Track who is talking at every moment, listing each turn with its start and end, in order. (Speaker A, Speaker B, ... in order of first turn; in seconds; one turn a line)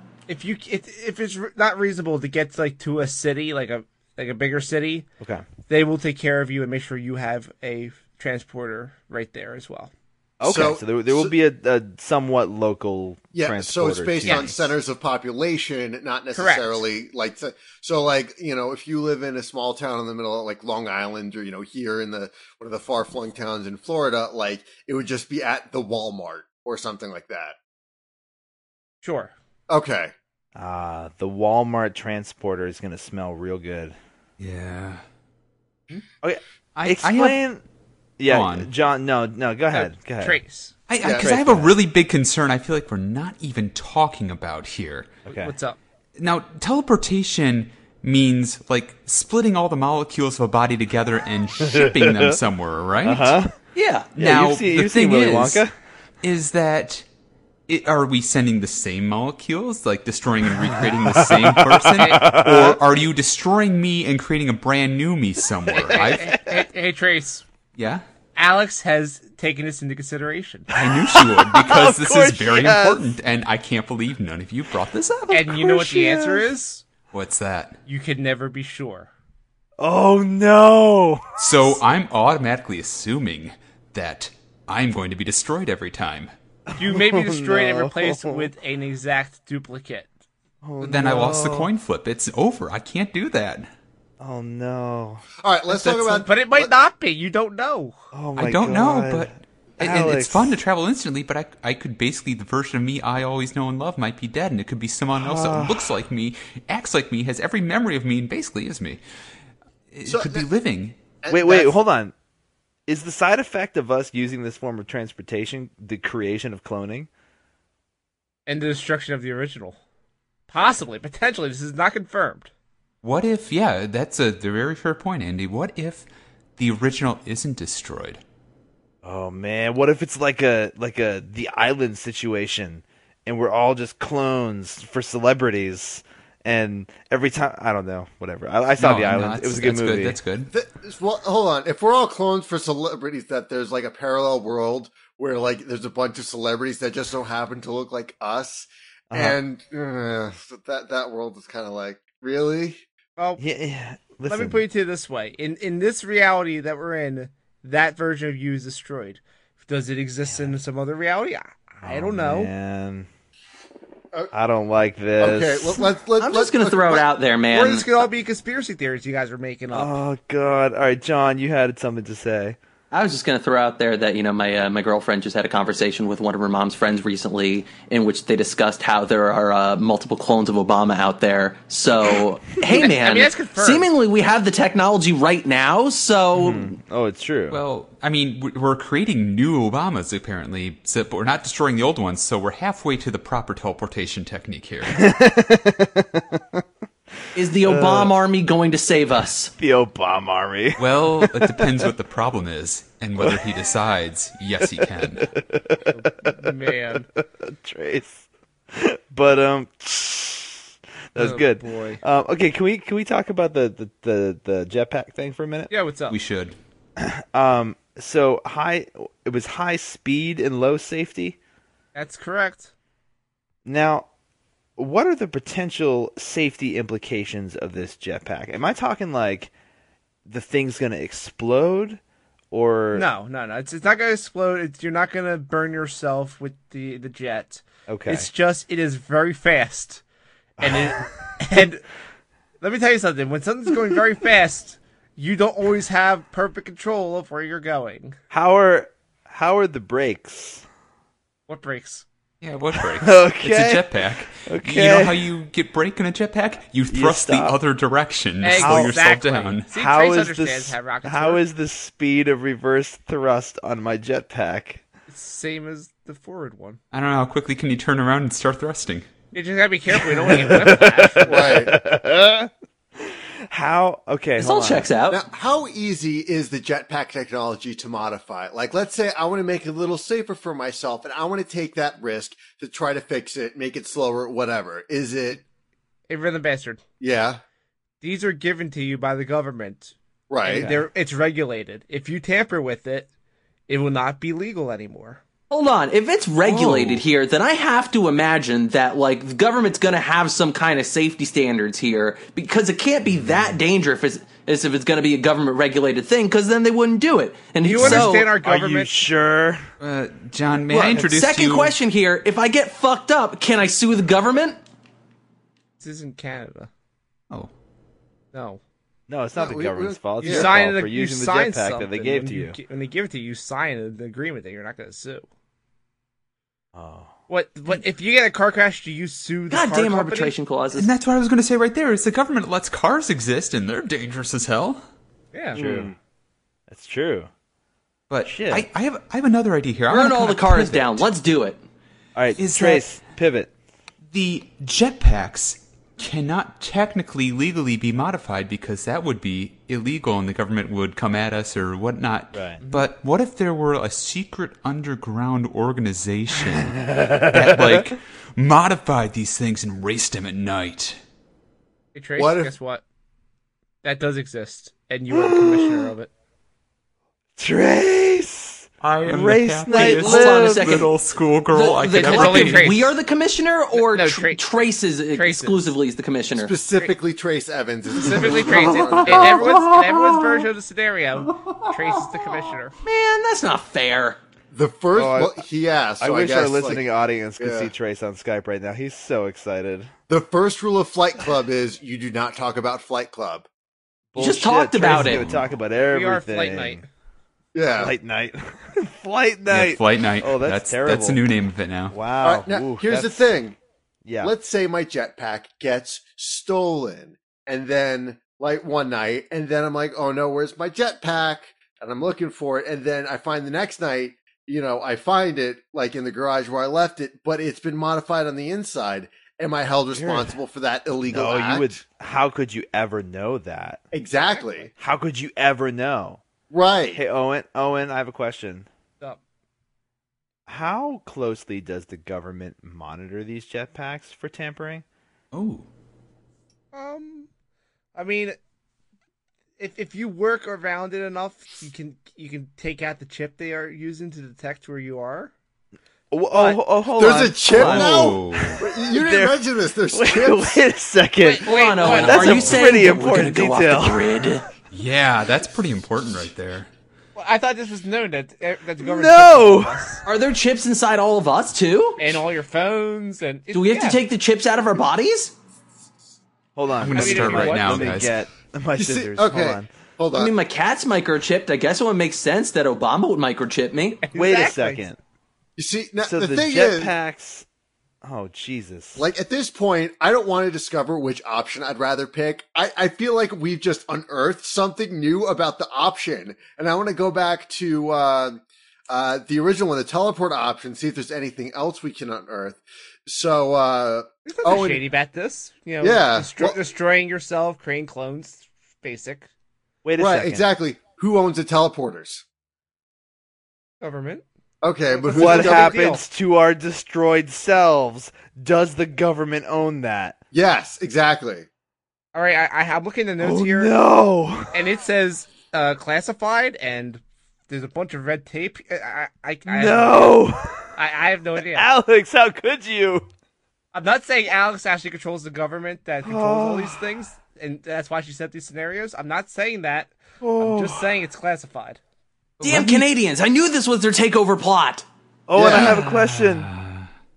Speaker A: 0.3-5.0
Speaker B: 5.2-5.5
Speaker A: 5.7-9.9
Speaker B: 10.4-14.7
Speaker C: 10.4-11.3
Speaker C: 13.3-27.6
Speaker A: 14.2-14.5
Speaker A: 16.3-16.8
Speaker A: 29.0-29.3
Speaker C: 29.7-30.1
Speaker B: 30.5-34.0
Speaker D: 34.4-35.0
Speaker B: 36.2-37.6
Speaker D: 36.8-37.4
Speaker B: 38.2-40.4
Speaker D: 38.3-38.7
Speaker A: 39.7-40.7
Speaker D: 40.9-45.2
Speaker C: 41.0-41.3
Speaker B: 41.1-41.8
Speaker B: 45.2-45.5
Speaker A: 45.3-45.8
Speaker D: 46.2-53.4
Speaker B: 51.6-52.4
Speaker B: 53.0-53.5
Speaker E: 53.8-54.1
Speaker D: 54.1-55.6
Speaker B: 54.2-55.7
Speaker D: 56.2-57.0
Speaker D: 57.7-66.4
Speaker B: 60.5-62.8
Speaker A: 62.0-62.2
Speaker B: 65.7-66.6
Speaker A: 65.9-67.4
Speaker D: 67.8-68.0
Speaker A: 68.4-70.7
Speaker D: 70.7-75.5
Speaker B: 70.7-73.1
Speaker A: 75.3-76.8
Speaker B: 75.3-76.5
Speaker D: 77.1-77.8
Speaker A: 77.9-79.1
Speaker B: 79.8-81.7
Speaker D: 81.4-86.3
Speaker B: 86.7-88.5
Speaker A: 86.8-90.1
Speaker B: 90.6-91.7
Speaker D: 90.8-93.7
Speaker B: 94.2-95.2
Speaker C: 95.4-96.7
Speaker A: 95.7-98.0
Speaker B: 98.1-100.6
Speaker D: 98.4-109.0
Speaker B: 105.1-106.0
Speaker D: 109.9-111.0
Speaker C: 110.0-110.5
Speaker C: 111.2-111.8
Speaker B: 111.3-112.1
Speaker B: 112.9-117.1
Speaker A: 118.5-119.8
Speaker A: 120.5-122.5
Speaker D: 123.0-128.2
Speaker B: 129.0-140.2
Speaker D: 138.8-140.5
Speaker C: 140.5-152.8
Speaker B: 149.1-149.4
Speaker A: 153.2-153.4
Speaker B: 153.4-154.6
Speaker A: 154.2-162.5
Speaker B: 161.8-163.1
Speaker B: 164.3-165.9
Speaker C: 165.2-167.1
Speaker E: 166.2-167.9
Speaker A: 167.5-170.0
Speaker B: 169.7-172.6
Speaker E: 172.9-186.7
Speaker A: 182.6-183.9
Speaker B: 186.3-187.6
Speaker D: 187.5-195.0
Speaker B: 194.9-196.6
Speaker E: 197.3-199.5
Speaker B: 197.6-198.1
Speaker B: 199.6-201.9
Speaker D: 200.8-205.3
Speaker B: 203.2-203.5
Speaker B: 204.6-215.7
Speaker A: 205.9-207.1
Speaker A: 211.2-212.0
Speaker A: 215.7-216.2
Speaker D: 216.1-216.6
Speaker B: 217.0-221.4
Speaker A: 221.9-222.7
Speaker B: 223.6-224.1
Speaker B: 224.8-229.5
Speaker B: 230.2-232.0
Speaker B: 232.5-233.1
Speaker A: 232.9-240.0
Speaker B: 237.9-238.3
Speaker B: 240.6-241.1
Speaker A: 240.6-241.8
Speaker A: 242.6-248.2
Speaker B: 248.3-250.6
Speaker A: 251.5-252.0
Speaker D: 252.4-259.7
Speaker B: 252.7-255.3
Speaker B: 256.9-257.6
Speaker A: 258.4-261.4
Speaker B: 258.6-259.0
Speaker B: 259.7-264.8
Speaker A: 265.1-266.8
Speaker D: 266.9-269.1
Speaker A: 269.3-271.7
Speaker B: 269.9-274.9
Speaker C: 271.2-271.7
Speaker E: 274.4-275.2
Speaker C: 275.1-285.4
Speaker A: 286.1-286.8
Speaker C: 287.0-287.4
Speaker A: 288.0-293.1
Speaker C: 290.3-290.7
Speaker B: 290.5-290.8
Speaker A: 293.7-295.2
Speaker E: 295.5-308.3
Speaker D: 296.5-297.0
Speaker A: 307.6-309.0
Speaker B: 307.8-309.6
Speaker D: 309.8-311.7
Speaker E: 310.7-314.6
Speaker A: 315.8-316.7
Speaker A: 318.3-318.6
Speaker B: 319.1-322.6
Speaker C: 319.4-320.5
Speaker A: 320.2-325.3
Speaker B: 326.7-327.1
Speaker A: 327.3-330.3
Speaker E: 329.5-330.9
Speaker D: 330.7-334.8
Speaker A: 335.3-335.6
Speaker B: 335.5-335.9
Speaker C: 335.6-335.9
Speaker B: 336.7-337.3
Speaker D: 338.1-341.1
Speaker B: 338.2-338.7
Speaker E: 339.9-341.6
Speaker B: 342.1-343.5
Speaker D: 342.4-342.9
Speaker D: 344.1-361.0
Speaker B: 352.3-352.6
Speaker A: 352.6-352.9
Speaker B: 356.4-357.9
Speaker A: 361.9-362.8
Speaker C: 362.2-362.5
Speaker A: 363.8-366.1
Speaker B: 365.1-365.9
Speaker B: 367.4-370.9
Speaker D: 368.8-372.8
Speaker E: 369.7-370.9
Speaker E: 371.5-376.5
Speaker A: 371.9-372.9
Speaker A: 373.7-374.4
Speaker A: 375.1-375.7
Speaker C: 376.4-379.5
Speaker A: 378.0-382.8
Speaker D: 379.2-380.2
Speaker E: 382.8-384.2
Speaker C: 384.5-386.8
Speaker B: 384.9-385.4
Speaker B: 386.0-389.9
Speaker C: 387.4-387.7
Speaker C: 390.1-393.5
Speaker B: 394.1-396.8
Speaker E: 394.2-395.2
Speaker D: 394.8-395.5
Speaker A: 395.8-396.9
Speaker C: 397.5-397.9
Speaker B: 397.8-401.2
Speaker D: 399.5-401.9
Speaker B: 401.9-403.3
Speaker C: 402.2-403.6
Speaker B: 404.0-404.3
Speaker C: 404.2-421.8
Speaker B: 419.9-420.4
Speaker B: 421.1-423.8
Speaker C: 423.9-424.7
Speaker A: 424.3-424.7
Speaker B: 424.8-426.2
Speaker C: 426.5-427.0
Speaker B: 426.9-428.7
Speaker B: 430.5-434.8
Speaker D: 435.3-435.7
Speaker A: 436.7-437.3
Speaker A: 437.9-438.4
Speaker A: 439.6-445.3
Speaker B: 446.1-454.4
Speaker A: 446.3-446.6
Speaker C: 447.0-450.6
Speaker E: 447.5-447.9
Speaker D: 447.6-448.6
Speaker A: 451.2-452.6
Speaker E: 451.5-454.5
Speaker D: 452.2-452.5
Speaker D: 454.7-456.7
Speaker A: 457.1-460.0
Speaker B: 458.8-459.8
Speaker E: 460.1-462.0
Speaker A: 462.0-464.0
Speaker E: 463.5-465.3
Speaker B: 466.6-469.7
Speaker D: 466.8-468.2
Speaker A: 466.9-468.0
Speaker C: 468.8-470.3
Speaker E: 470.1-474.0
Speaker A: 474.0-474.9
Speaker B: 474.1-475.0
Speaker C: 475.6-476.9
Speaker B: 476.0-477.5
Speaker B: 478.0-479.1
Speaker C: 479.0-494.8
Speaker A: 494.2-499.3
Speaker C: 495.8-496.6
Speaker B: 499.8-500.4
Speaker C: 500.0-502.2
Speaker A: 503.8-504.2
Speaker C: 504.6-505.8
Speaker A: 504.9-506.0
Speaker B: 505.1-510.2
Speaker C: 510.3-511.5
Speaker A: 512.1-513.7
Speaker B: 513.2-514.5
Speaker A: 514.5-520.2
Speaker B: 519.5-520.6
Speaker A: 520.8-521.7
Speaker B: 521.4-523.1
Speaker A: 523.7-531.8
Speaker B: 526.0-526.8
Speaker B: 530.2-530.9
Speaker D: 532.4-532.8
Speaker E: 532.4-534.9
Speaker B: 535.3-536.5
Speaker C: 535.3-535.8
Speaker D: 535.5-536.9